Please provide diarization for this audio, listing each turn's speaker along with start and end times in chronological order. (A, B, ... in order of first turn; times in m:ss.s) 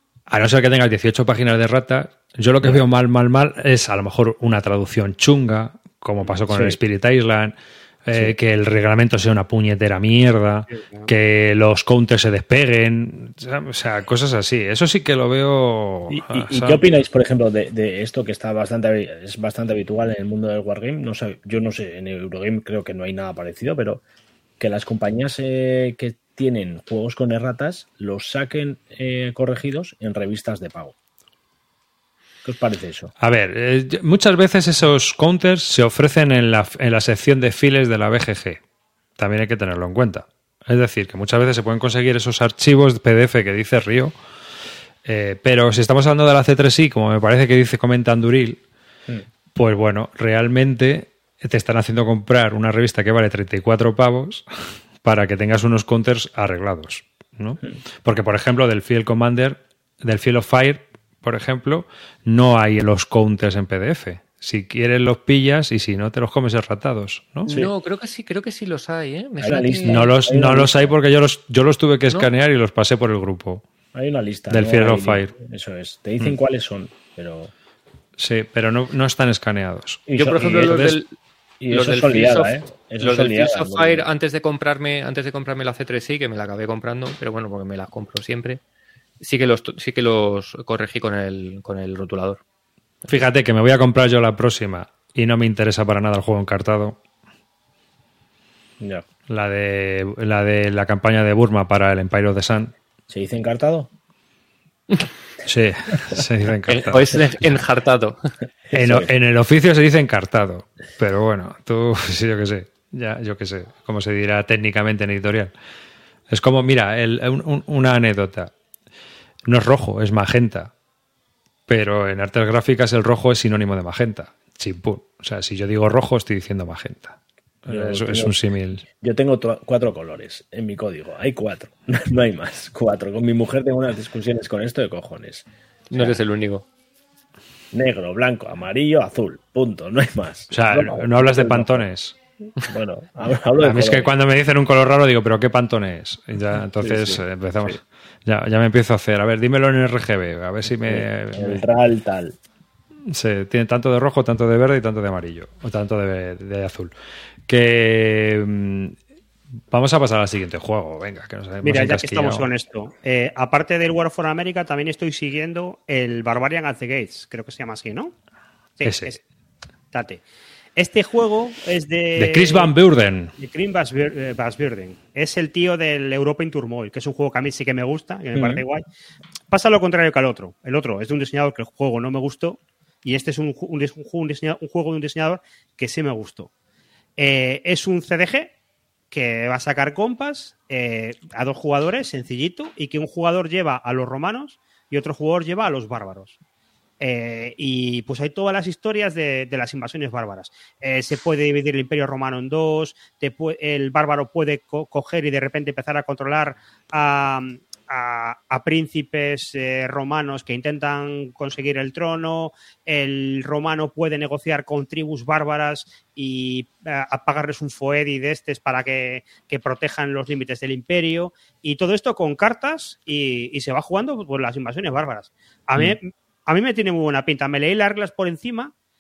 0:00.3-0:16.9 A
0:06.5-0:06.8 B
0:10.7-0:11.1 C
0:16.1-0:24.0 B
0:24.6-0:31.0 B
0:32.4-0:33.1 B
0:33.2-0:38.6 A
0:39.2-0:44.2 A
0:45.0-0:48.6 A
0:49.6-1:07.5 A
1:07.5-1:07.7 B
1:07.5-1:10.1 D
1:09.4-1:10.9 B
1:09.8-1:13.6 A
1:13.9-1:17.5 B
1:14.5-1:15.3 A
1:18.2-1:20.0 A
1:20.1-1:20.9 B
1:20.2-1:21.1 D
1:20.6-1:21.0 A
1:21.6-1:24.1 B
1:21.7-1:28.6 D
1:29.2-1:32.4 D
1:33.0-1:37.0 A
1:39.3-1:42.7 A
1:43.1-1:43.9 B
1:45.5-1:47.2 A
1:46.7-1:48.3 D
1:48.7-1:49.1 B
1:48.7-1:55.5 A
1:56.3-1:58.5 A
1:59.4-2:00.7 A
2:01.7-2:08.9 A
2:07.7-2:08.4 B
2:09.0-2:16.2 B
2:15.9-2:16.6 D
2:17.7-2:21.9 B
2:20.5-2:22.2 A
2:22.6-2:24.1 B
2:23.6-2:31.6 A
2:26.8-2:27.2 B
2:30.8-2:32.4 B
2:33.1-2:36.9 A
2:37.5-2:39.0 A
2:39.7-2:42.5 A
2:41.6-2:48.2 C
2:48.8-2:49.2 C
2:48.8-2:49.2 A
2:49.9-2:50.2 C
2:50.8-2:52.7 C
2:52.2-2:53.3 A
2:53.4-2:58.8 C
2:58.3-2:58.6 B
2:59.5-3:06.5 C
3:07.2-3:08.5 C
3:09.1-3:16.4 C
3:17.0-3:48.7 C